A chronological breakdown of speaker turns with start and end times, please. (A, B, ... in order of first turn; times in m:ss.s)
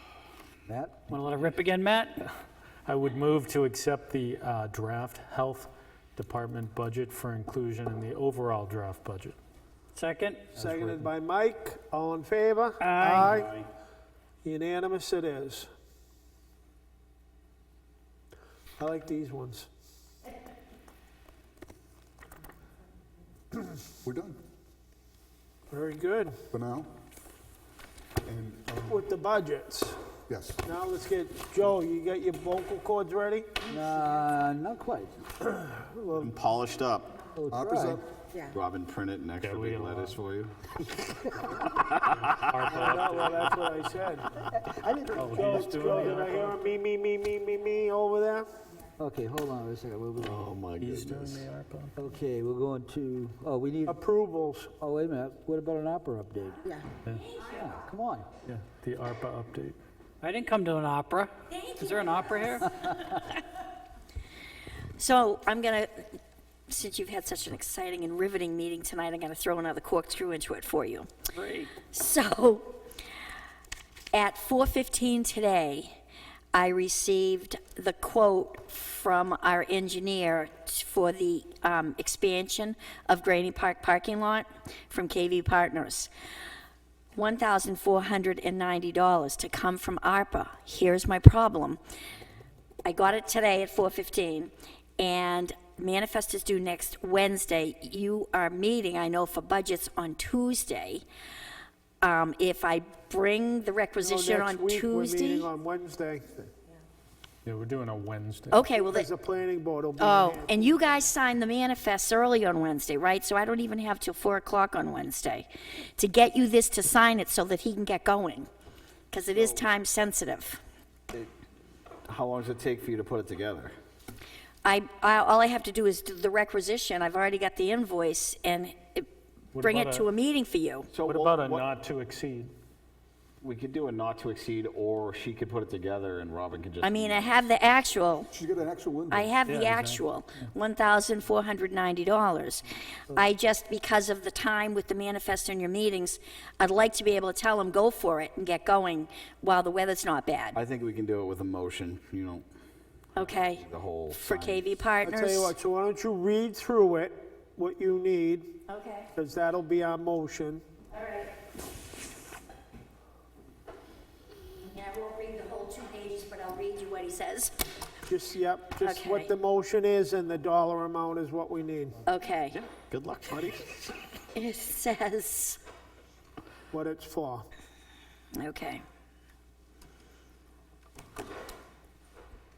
0:00.7-0:01.0 A
0:01.1-0:02.2 B
0:02.8-0:09.4 C
0:10.0-0:10.6 B
0:10.5-0:13.5 D
0:10.6-0:11.1 C
0:12.8-0:13.5 B
0:13.2-0:13.7 E
0:14.4-0:15.7 D
0:18.8-0:19.7 D
0:24.0-0:24.4 F
0:25.7-0:26.4 D
0:26.5-0:26.9 F
0:28.2-0:29.0 F
0:28.9-0:30.0 D
0:30.3-0:30.7 F
0:30.6-0:33.5 D
0:33.6-0:35.2 A
0:35.5-0:36.3 D
0:36.2-0:37.2 E
0:37.3-0:38.0 A
0:37.5-0:38.0 F
0:38.5-0:42.7 E
0:39.4-0:40.2 C
0:42.3-0:43.5 C
0:42.7-0:44.3 D
0:44.4-0:45.9 A
0:45.1-0:46.5 C
0:45.3-0:48.5 D
0:49.0-0:50.5 A
0:50.2-0:51.5 E
0:50.8-0:51.9 C
0:52.0-0:54.0 A
0:53.9-0:54.7 D
0:54.8-0:56.8 A
0:57.0-0:57.3 C
0:57.4-0:58.3 A
0:58.4-0:59.8 C
1:00.2-1:03.2 B
1:01.5-1:02.6 G
1:05.0-1:06.1 G
1:06.7-1:11.1 G
1:11.3-1:11.7 B
1:11.9-1:12.8 G
1:14.1-1:16.0 G
1:16.5-1:26.1 G
1:27.2-1:31.8 G
1:32.8-1:41.0 G
1:42.0-1:45.5 G
1:44.0-1:46.5 D
1:47.4-1:48.7 C
1:48.5-1:49.1 G
1:48.8-1:50.7 D
1:50.0-1:58.5 G
1:59.1-2:00.6 G
1:59.3-1:59.6 E
2:02.0-2:03.7 E
2:04.6-2:10.9 G
2:09.5-2:10.1 C
2:10.9-2:11.7 E
2:11.0-2:12.5 C
2:13.4-2:17.5 E
2:16.8-2:18.3 G
2:18.3-2:19.3 F
2:19.1-2:30.6 G
2:19.5-2:20.0 C
2:30.5-2:32.4 E
2:33.1-2:34.7 E
2:33.2-2:33.6 G
2:34.2-2:35.5 G
2:35.0-2:38.5 D
2:38.7-2:39.1 G
2:39.2-2:40.6 D
2:40.9-2:41.3 G
2:44.6-2:47.5 G
2:48.1-2:52.0 D
2:48.8-2:49.3 G
2:52.0-2:52.6 G
2:52.5-2:53.7 E
2:54.3-2:55.6 G
2:56.7-2:57.5 D
2:58.4-2:58.8 G